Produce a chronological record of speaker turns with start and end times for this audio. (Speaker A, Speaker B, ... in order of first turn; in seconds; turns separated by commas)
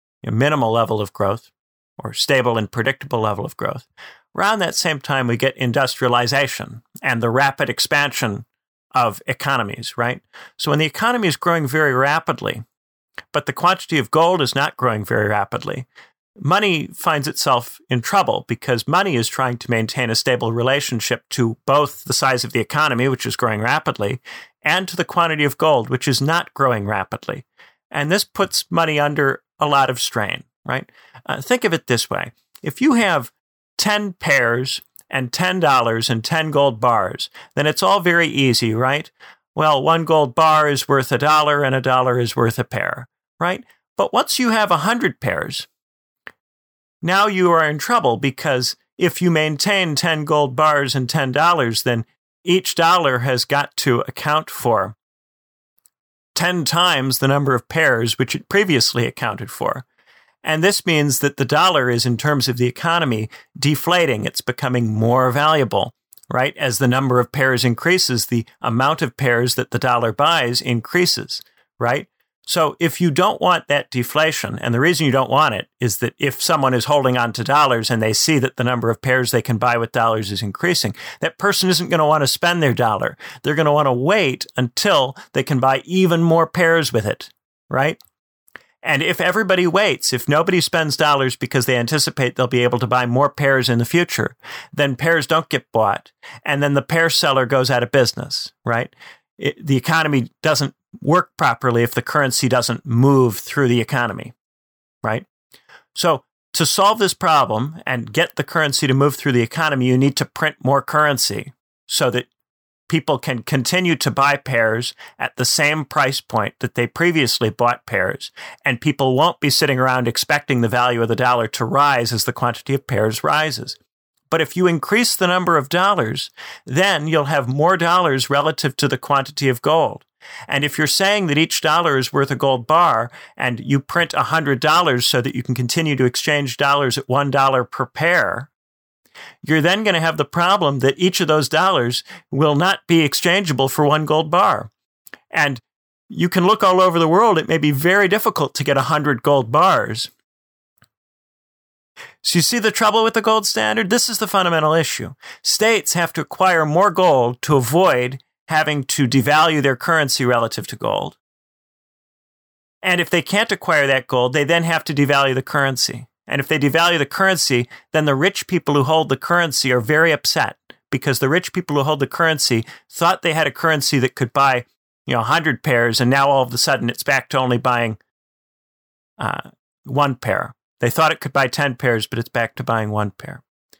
Speaker A: 0.2-12.6, Speaker A: 13.3-15.9, Speaker A: 16.4-45.7, Speaker A: 47.0-55.0, Speaker A: 56.3-59.8, Speaker A: 60.4-88.0, Speaker A: 88.8-104.3, Speaker A: 105.9-112.3, Speaker A: 112.9-123.8, Speaker A: 124.3-138.5, Speaker A: 139.4-144.7, Speaker A: 145.3-150.1, Speaker A: 152.2-161.2, Speaker A: 162.8-178.0, Speaker A: 179.2-183.4